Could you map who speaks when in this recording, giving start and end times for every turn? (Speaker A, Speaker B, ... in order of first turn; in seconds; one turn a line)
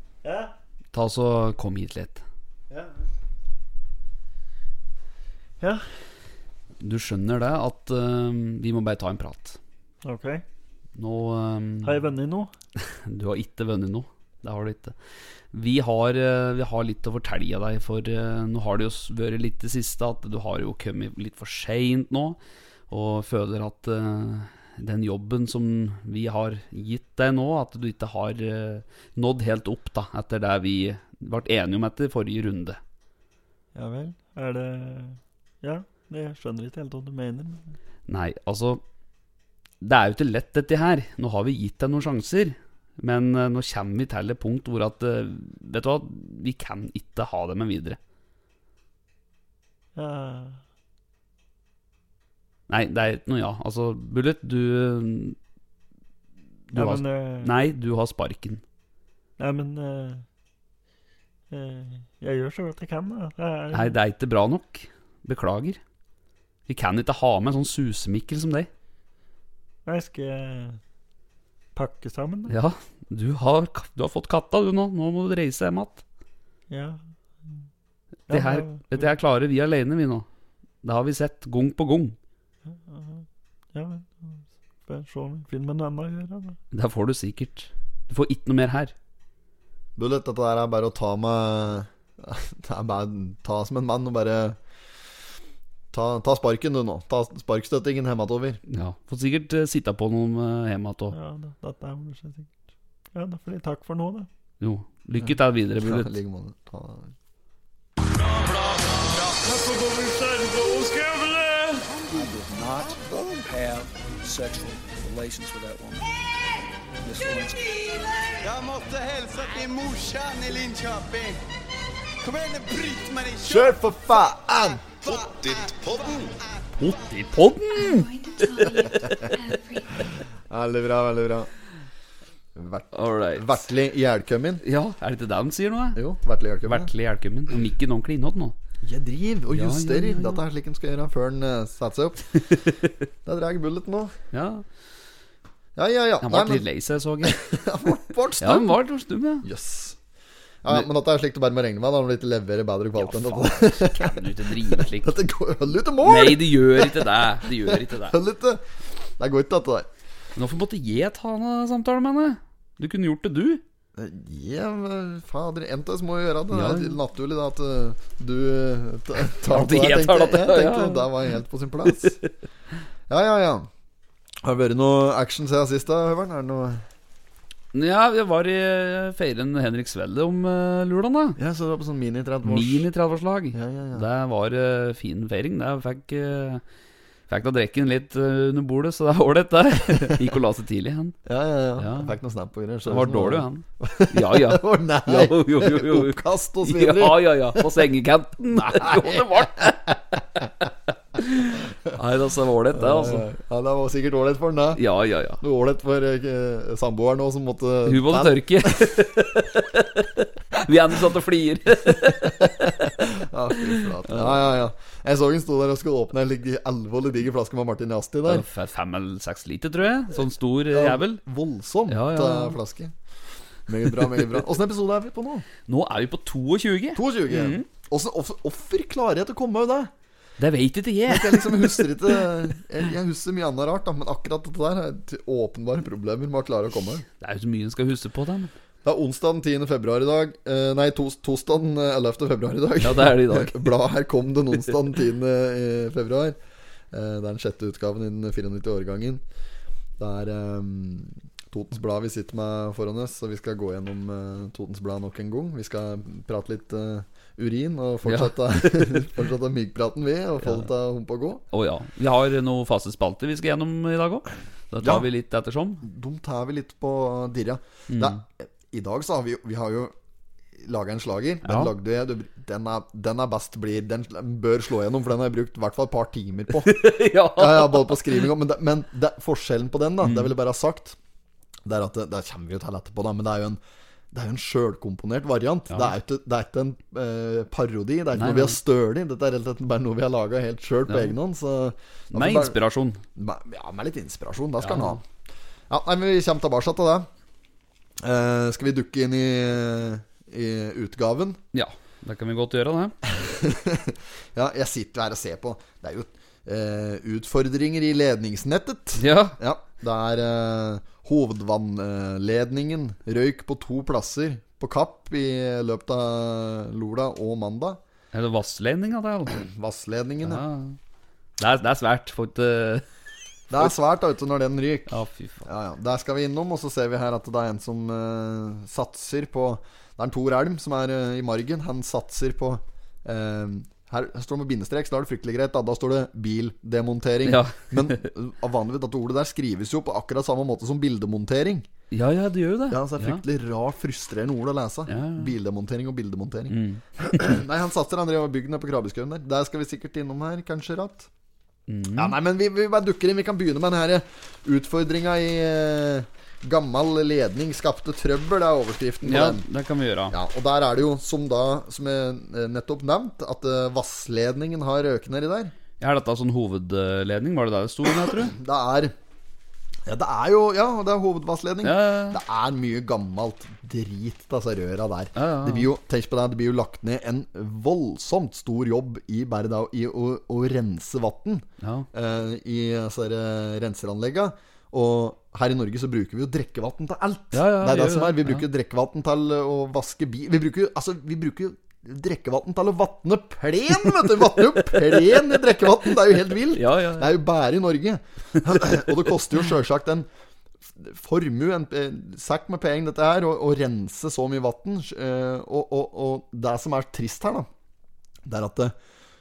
Speaker A: 0.2-0.5
Speaker B: 0.9-2.2
Speaker B: 6.8-9.6
Speaker A: 10.0-10.4
Speaker B: 11.0-12.0
Speaker A: 11.8-12.5
Speaker B: 12.9-14.9
Speaker B: 15.5-22.4
Speaker B: 22.9-32.8
Speaker A: 33.7-37.7
Speaker B: 38.1-38.8
Speaker B: 39.8-48.0
Speaker A: 49.9-50.6
Speaker B: 52.7-55.4
Speaker B: 56.7-58.6
Speaker A: 56.7-57.5
Speaker A: 59.4-60.2
Speaker A: 61.5-64.0
Speaker B: 63.7-65.8
Speaker B: 66.7-68.7
Speaker A: 69.8-70.8
Speaker A: 71.8-72.5
Speaker B: 72.5-76.0
Speaker A: 76.7-77.0
Speaker A: 78.3-79.0
Speaker B: 78.3-80.2
Speaker B: 80.8-82.2
Speaker A: 82.7-86.6
Speaker B: 86.7-88.9
Speaker C: 90.0-94.6
Speaker C: 95.9-98.6
Speaker B: 98.7-101.1
Speaker A: 101.1-102.5
Speaker A: 103.1-104.3
Speaker B: 104.6-106.1
Speaker C: 105.2-107.1
Speaker D: 108.0-116.1
Speaker C: 112.8-113.2
Speaker D: 117.0-118.4
Speaker E: 118.4-121.4
Speaker E: 122.2-127.1
Speaker C: 123.4-124.8
Speaker B: 126.8-128.1
Speaker F: 127.7-130.1
Speaker B: 128.6-129.2
Speaker C: 129.0-129.3
Speaker C: 130.0-131.5
Speaker C: 132.5-134.6
Speaker B: 132.9-133.5
Speaker B: 134.6-136.0
Speaker C: 135.9-136.9
Speaker B: 136.6-138.5
Speaker C: 138.8-142.5
Speaker B: 139.5-140.4
Speaker C: 143.2-144.1
Speaker B: 144.3-144.6
Speaker C: 145.8-146.6
Speaker B: 146.2-147.4
Speaker C: 147.2-148.8
Speaker B: 148.4-149.4
Speaker C: 149.4-150.0
Speaker C: 150.6-159.9
Speaker B: 153.0-155.1
Speaker B: 156.0-158.2
Speaker B: 160.3-163.6
Speaker C: 163.9-172.2
Speaker B: 166.5-167.0
Speaker B: 169.5-171.1
Speaker B: 171.9-172.3
Speaker C: 173.1-173.7
Speaker C: 174.4-176.8
Speaker B: 177.7-181.4
Speaker C: 181.4-182.9
Speaker B: 182.4-186.6
Speaker C: 183.5-184.1
Speaker B: 187.3-191.2
Speaker C: 189.9-190.2
Speaker C: 191.2-197.8
Speaker B: 191.8-192.1
Speaker B: 192.8-199.9
Speaker C: 198.5-200.7
Speaker B: 201.2-203.2
Speaker C: 202.7-204.8
Speaker B: 204.8-205.4
Speaker C: 205.4-209.1
Speaker B: 207.8-214.5
Speaker C: 211.9-218.4
Speaker B: 218.2-221.2
Speaker C: 220.7-222.9
Speaker B: 221.9-222.6
Speaker C: 223.7-225.4
Speaker B: 225.7-227.7
Speaker C: 226.9-229.9
Speaker B: 230.4-232.2
Speaker C: 231.1-237.0
Speaker B: 237.2-238.5
Speaker C: 238.8-246.4
Speaker B: 242.8-243.7
Speaker C: 246.9-249.2
Speaker C: 250.0-261.4
Speaker B: 258.0-259.1
Speaker B: 261.5-265.8
Speaker C: 265.8-269.9
Speaker B: 267.9-268.2
Speaker C: 270.6-281.0
Speaker B: 271.4-271.7
Speaker B: 276.6-278.2
Speaker B: 280.0-280.3
Speaker C: 281.6-283.6
Speaker C: 284.1-292.6
Speaker B: 288.1-288.6
Speaker B: 290.9-291.1
Speaker B: 292.1-293.0
Speaker C: 293.1-295.0
Speaker B: 294.6-295.0
Speaker C: 295.7-297.1
Speaker C: 298.0-301.4
Speaker B: 301.5-302.9
Speaker C: 303.1-317.8
Speaker B: 309.0-309.4
Speaker B: 318.1-319.4
Speaker C: 319.3-320.4
Speaker B: 320.2-320.8
Speaker B: 321.4-322.8
Speaker C: 323.5-341.7
Speaker B: 324.9-325.4
Speaker B: 337.2-338.1
Speaker B: 341.9-343.2
Speaker C: 342.7-351.1
Speaker B: 344.9-345.3
Speaker B: 346.5-347.3
Speaker B: 351.7-352.1
Speaker C: 351.9-359.4
Speaker B: 359.0-360.1
Speaker C: 360.1-365.5
Speaker B: 365.8-368.4
Speaker C: 367.9-368.9
Speaker C: 369.9-400.1
Speaker B: 371.6-372.2
Speaker B: 375.1-375.7
Speaker B: 381.6-381.9
Speaker B: 387.3-388.4
Speaker B: 396.5-397.1
Speaker B: 398.6-398.9
Speaker C: 400.8-407.5
Speaker C: 408.2-408.7